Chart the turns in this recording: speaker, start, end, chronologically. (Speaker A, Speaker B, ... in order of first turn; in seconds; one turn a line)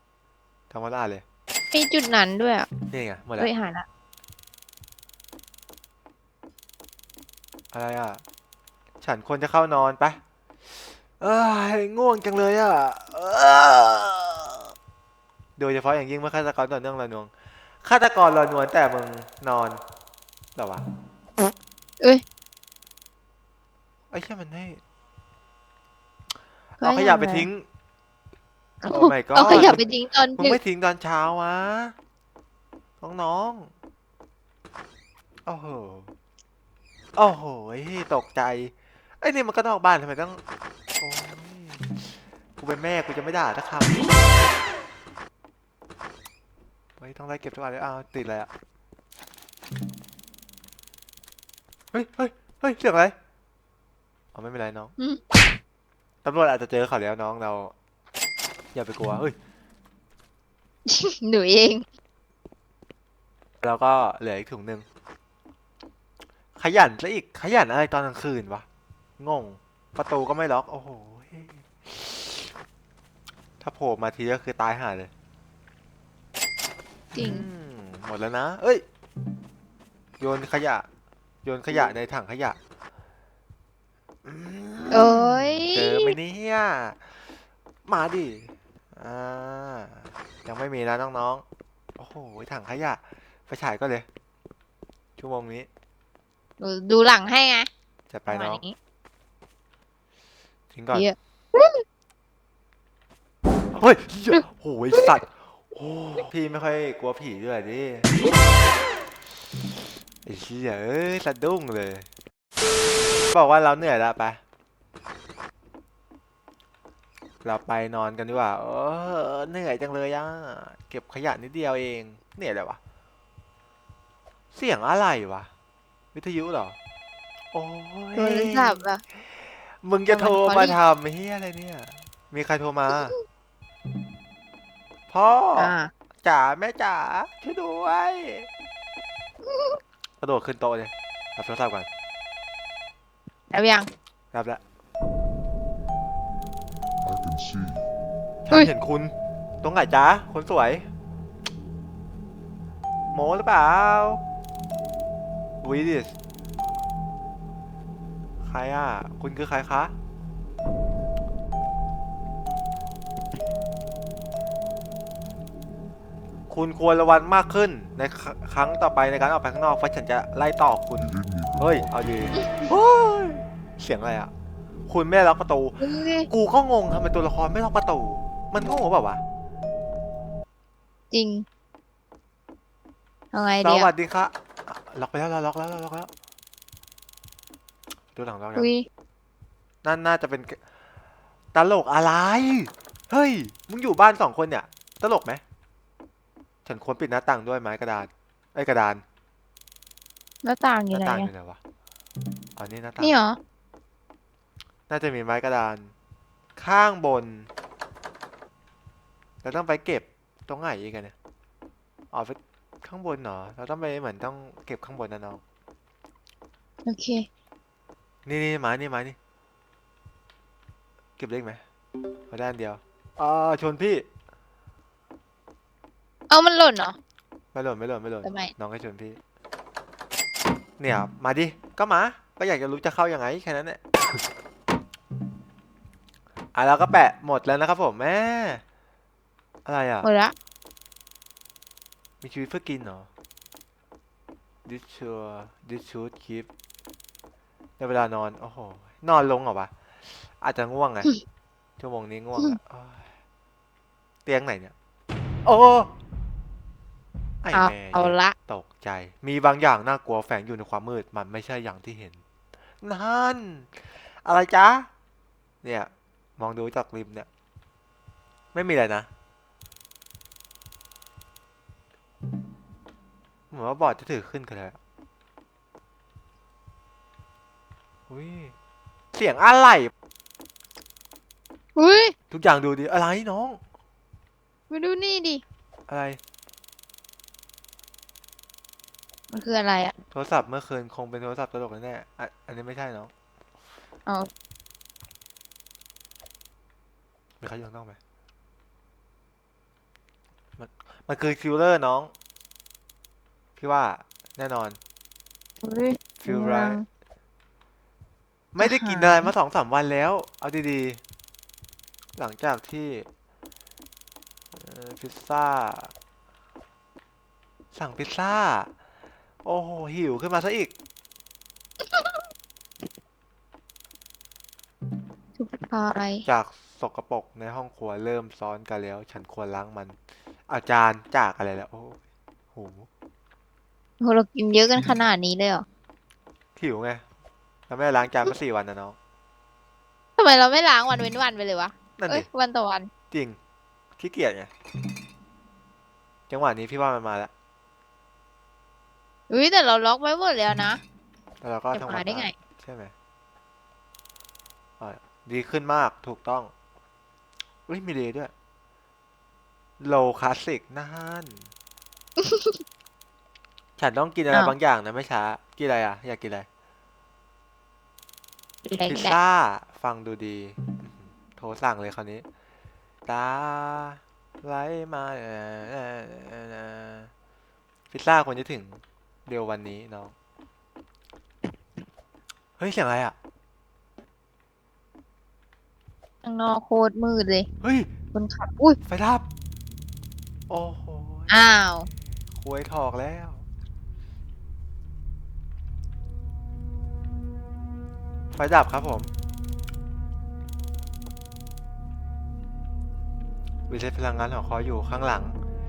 Speaker A: 0.7-1.2
Speaker B: 1.7-2.7
Speaker A: 2.9-3.5
Speaker B: 3.4-3.9
Speaker A: 7.7-8.2
Speaker A: 9.0-10.2
Speaker A: 11.2-14.7
Speaker A: 15.6-17.3
Speaker A: 17.8-19.8
Speaker A: 20.6-20.8
Speaker A: 24.1-24.8
Speaker B: 26.8-27.5
Speaker A: 26.8-27.6
Speaker B: 28.8-30.6
Speaker A: 28.9-31.9
Speaker A: 33.0-33.7
Speaker A: 35.5-36.1
Speaker A: 37.1-40.4
Speaker A: 41.0-42.0
Speaker A: 42.6-44.0
Speaker A: 47.0-48.5
Speaker A: 51.9-53.1
Speaker A: 54.3-54.9
Speaker A: 56.2-57.7
Speaker A: 58.7-59.4
Speaker B: 60.9-61.8
Speaker A: 63.6-64.8
Speaker A: 66.6-68.7
Speaker A: 69.2-72.5
Speaker A: 73.6-75.1
Speaker B: 77.1-77.5
Speaker A: 77.1-78.8
Speaker A: 80.2-80.8
Speaker A: 81.4-82.6
Speaker A: 84.2-87.2
Speaker B: 84.9-86.2
Speaker A: 87.8-91.4
Speaker A: 92.0-94.0
Speaker A: 95.2-95.7
Speaker B: 96.6-97.7
Speaker A: 98.1-98.6
Speaker B: 98.3-98.7
Speaker A: 100.7-101.1
Speaker B: 100.9-101.8
Speaker A: 103.7-108.1
Speaker A: 110.2-112.1
Speaker A: 113.3-114.4
Speaker A: 117.4-122.8
Speaker A: 124.5-125.5
Speaker A: 126.1-126.8
Speaker A: 127.5-133.1
Speaker B: 128.2-129.0
Speaker B: 130.1-130.8
Speaker A: 135.1-138.5
Speaker B: 135.6-135.9
Speaker B: 139.5-139.8
Speaker A: 140.2-141.9
Speaker B: 143.5-143.9
Speaker A: 144.3-144.6
Speaker C: 147.0-147.9
Speaker A: 148.4-150.9
Speaker A: 153.1-154.2
Speaker A: 155.6-156.1
Speaker A: 158.4-159.9
Speaker A: 166.5-174.3
Speaker C: 170.9-172.4
Speaker A: 174.9-179.2
Speaker B: 175.8-176.3
Speaker B: 181.1-181.4
Speaker B: 183.3-183.9
Speaker A: 183.6-186.1
Speaker A: 188.1-188.7
Speaker B: 188.6-188.8
Speaker A: 189.8-190.6
Speaker A: 191.5-195.4
Speaker A: 196.6-199.0
Speaker B: 200.4-201.3
Speaker A: 200.9-201.6
Speaker A: 202.6-203.1
Speaker B: 203.0-203.4
Speaker A: 204.9-205.9
Speaker A: 206.6-207.5
Speaker A: 209.4-211.1
Speaker A: 212.1-215.4
Speaker B: 216.8-217.3
Speaker A: 218.2-219.2
Speaker A: 221.2-221.6
Speaker A: 222.3-224.1
Speaker B: 226.3-226.9
Speaker A: 227.5-229.2
Speaker B: 228.2-228.5
Speaker A: 230.8-233.8
Speaker A: 236.5-238.6
Speaker A: 239.7-240.1
Speaker B: 240.0-240.3
Speaker A: 242.2-243.1
Speaker A: 244.6-246.5
Speaker A: 247.8-249.7
Speaker A: 250.2-251.1
Speaker A: 251.8-253.0
Speaker A: 254.2-254.7
Speaker A: 255.4-255.9
Speaker A: 257.4-262.2
Speaker B: 257.5-258.3
Speaker A: 262.8-263.7
Speaker A: 264.2-264.9
Speaker A: 265.6-267.3
Speaker A: 268.5-269.1
Speaker A: 273.5-274.8
Speaker A: 278.1-278.5
Speaker A: 279.1-279.9
Speaker B: 281.8-282.1
Speaker A: 282.3-283.6
Speaker B: 284.7-285.4
Speaker A: 285.9-286.2
Speaker B: 289.3-289.9
Speaker A: 290.1-293.1
Speaker A: 297.4-298.0
Speaker A: 300.6-302.1
Speaker A: 303.6-304.8
Speaker B: 305.6-306.8
Speaker A: 306.2-306.8
Speaker A: 308.5-311.0
Speaker B: 308.6-309.3
Speaker A: 312.2-313.1
Speaker A: 314.5-315.9
Speaker A: 317.7-318.7
Speaker A: 319.4-320.7
Speaker B: 321.9-322.2
Speaker B: 325.4-326.2
Speaker A: 326.2-330.0
Speaker A: 330.5-332.0
Speaker A: 332.5-332.9
Speaker B: 334.0-335.6
Speaker A: 336.6-337.0
Speaker A: 337.7-338.9
Speaker B: 340.2-342.9
Speaker A: 342.0-342.2
Speaker A: 343.1-343.4
Speaker A: 344.0-344.5
Speaker A: 346.3-347.3
Speaker B: 349.3-350.8
Speaker A: 351.4-352.9
Speaker B: 351.7-352.3
Speaker A: 354.8-356.5
Speaker A: 357.7-358.3
Speaker A: 359.8-361.5
Speaker B: 362.2-362.6
Speaker A: 363.8-366.5
Speaker B: 368.6-369.1
Speaker A: 368.9-372.2
Speaker A: 373.1-377.1
Speaker A: 377.9-380.1
Speaker A: 382.6-383.1
Speaker B: 386.2-387.5
Speaker A: 387.6-387.9
Speaker B: 388.1-388.8
Speaker A: 388.9-389.2
Speaker A: 390.5-391.6
Speaker B: 391.3-391.9
Speaker A: 392.3-393.4
Speaker A: 398.3-399.1
Speaker A: 403.7-405.4